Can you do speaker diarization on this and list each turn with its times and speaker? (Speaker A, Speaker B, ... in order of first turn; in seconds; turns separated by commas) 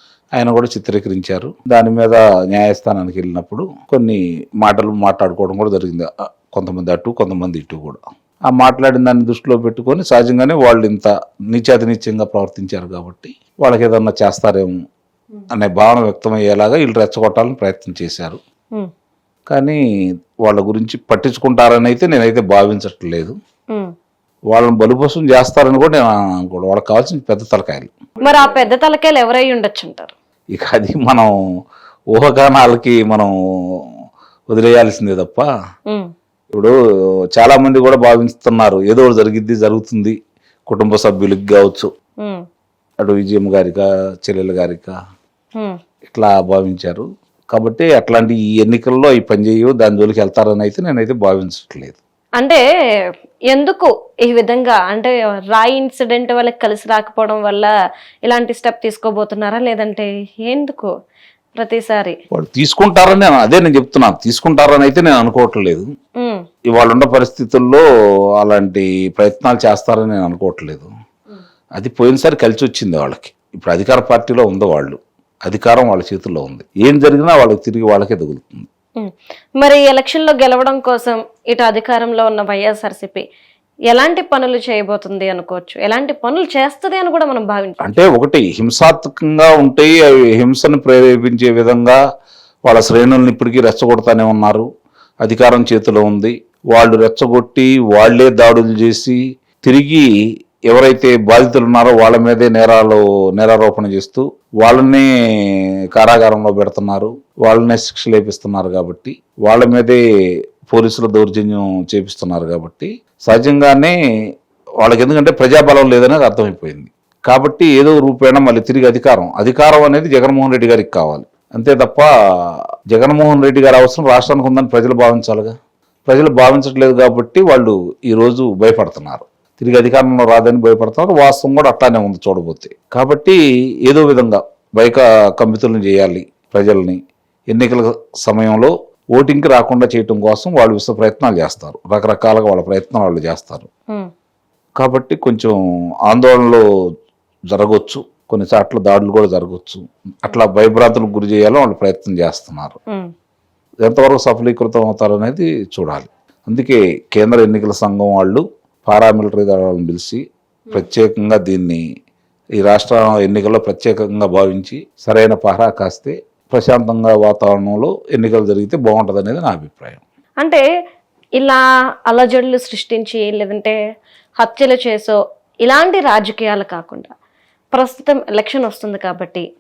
Speaker A: 0.4-14.7, Speaker A: 15.5-18.4, Speaker A: 19.5-19.8, Speaker A: 20.4-23.3, Speaker A: 24.5-27.9, Speaker B: 28.2-30.1, Speaker A: 30.5-31.3, Speaker A: 32.1-33.3, Speaker A: 34.5-35.5, Speaker A: 37.4-40.2, Speaker A: 40.7-41.9, Speaker A: 43.0-44.9, Speaker A: 46.1-52.0, Speaker B: 53.5-57.7, Speaker B: 58.3-60.9, Speaker B: 61.6-62.1, Speaker A: 62.3-65.9, Speaker A: 66.7-67.8, Speaker A: 68.4-70.9, Speaker A: 71.8-78.7, Speaker B: 79.0-83.2, Speaker B: 83.9-87.9, Speaker A: 87.8-92.0, Speaker A: 92.7-94.7, Speaker A: 95.2-100.1, Speaker A: 100.7-110.0, Speaker A: 110.7-114.0, Speaker A: 114.8-125.5, Speaker A: 126.1-143.7, Speaker A: 144.8-145.6, Speaker A: 146.1-146.6, Speaker A: 147.5-152.8, Speaker A: 153.8-160.2, Speaker A: 160.7-161.8, Speaker A: 162.6-170.0, Speaker B: 171.4-173.8, Speaker B: 174.4-177.1, Speaker B: 177.7-179.4